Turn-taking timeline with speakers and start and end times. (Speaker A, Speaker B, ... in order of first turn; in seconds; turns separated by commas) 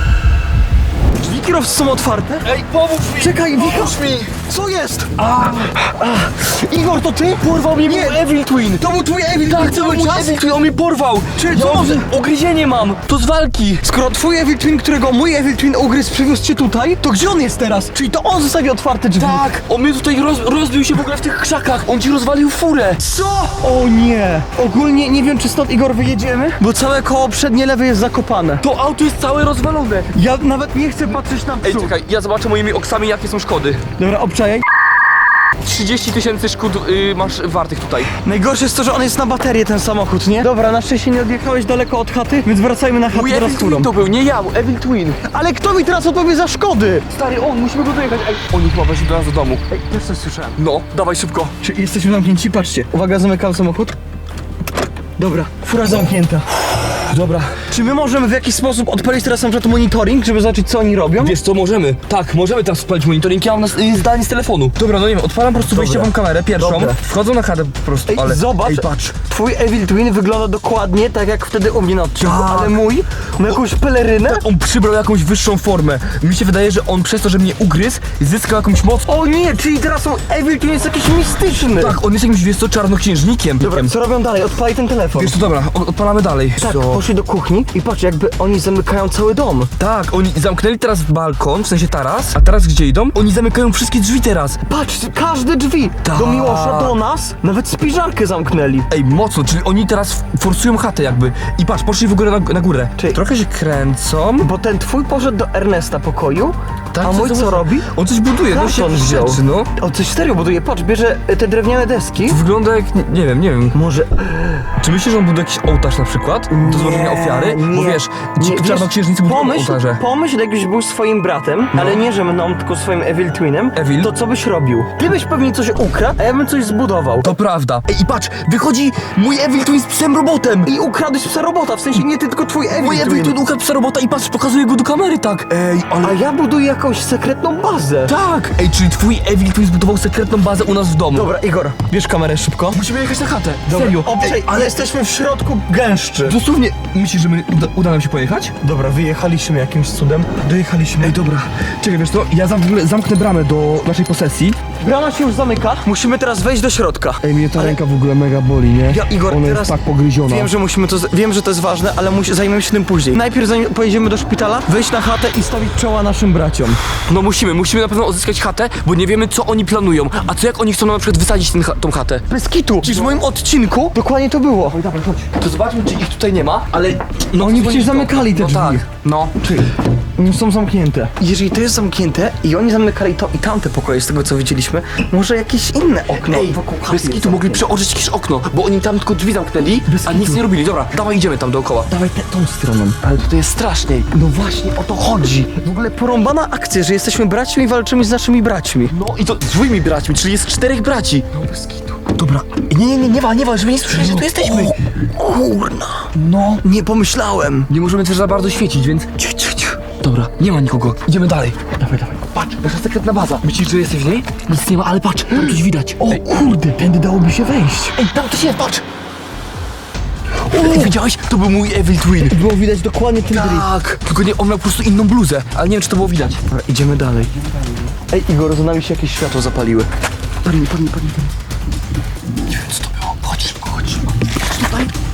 Speaker A: 1.2-2.5, Speaker B: 2.4-4.3, Speaker A: 3.2-5.1, Speaker B: 5.2-6.0, Speaker A: 5.9-8.2, Speaker B: 7.4-8.9, Speaker A: 8.7-10.4, Speaker B: 9.4-13.8, Speaker A: 11.3-12.1, Speaker A: 13.8-19.5, Speaker B: 19.2-23.0, Speaker A: 23.0-28.6, Speaker B: 28.6-30.1, Speaker A: 30.1-31.9, Speaker B: 31.6-33.8, Speaker A: 34.0-34.6, Speaker B: 35.6-38.1, Speaker A: 38.2-43.9, Speaker B: 43.1-45.2, Speaker A: 45.2-47.0, Speaker B: 47.1-49.6, Speaker A: 49.7-50.6, Speaker B: 50.5-51.5, Speaker A: 51.6-53.9, Speaker A: 55.2-56.5, Speaker B: 56.9-57.6, Speaker A: 57.6-61.4, Speaker B: 61.2-69.1, Speaker A: 65.6-67.0, Speaker A: 68.1-74.4, Speaker B: 72.2-72.8, Speaker B: 74.2-79.0, Speaker A: 79.0-82.0, Speaker B: 81.7-83.9, Speaker A: 83.6-85.3, Speaker B: 85.1-87.0, Speaker A: 86.6-89.7, Speaker B: 89.8-94.6, Speaker A: 94.7-98.9, Speaker B: 96.0-97.0, Speaker B: 98.9-104.5, Speaker A: 104.4-107.8, Speaker B: 106.9-109.7, Speaker A: 108.4-112.4, Speaker B: 112.2-113.8, Speaker A: 113.7-114.6, Speaker B: 114.8-120.0, Speaker A: 116.5-127.3, Speaker B: 123.7-124.1, Speaker B: 127.2-130.7, Speaker A: 130.7-133.3, Speaker B: 132.7-136.2, Speaker A: 136.0-138.1, Speaker B: 138.1-141.3, Speaker A: 141.1-142.8, Speaker B: 142.7-144.7, Speaker A: 143.7-146.4, Speaker B: 146.2-148.5, Speaker A: 148.6-151.2, Speaker B: 151.0-154.6, Speaker A: 154.8-157.8, Speaker B: 157.2-160.5, Speaker A: 158.9-166.8, Speaker B: 167.1-172.2, Speaker A: 172.3-174.8, Speaker B: 172.8-173.2, Speaker B: 174.7-179.4, Speaker A: 177.3-178.8, Speaker A: 179.4-187.7, Speaker B: 186.1-191.9, Speaker A: 189.9-190.4, Speaker A: 191.9-193.0, Speaker B: 193.0-194.1, Speaker A: 194.1-198.9, Speaker B: 198.9-204.7, Speaker A: 203.9-207.7, Speaker B: 206.1-206.6, Speaker B: 207.7-216.2, Speaker A: 211.8-212.1, Speaker A: 215.5-218.0, Speaker B: 217.9-218.8, Speaker B: 220.5-222.4, Speaker A: 220.5-220.9, Speaker A: 222.2-223.7, Speaker B: 223.3-226.4, Speaker A: 226.5-227.4, Speaker A: 228.1-229.9, Speaker A: 230.4-231.3, Speaker B: 232.5-234.9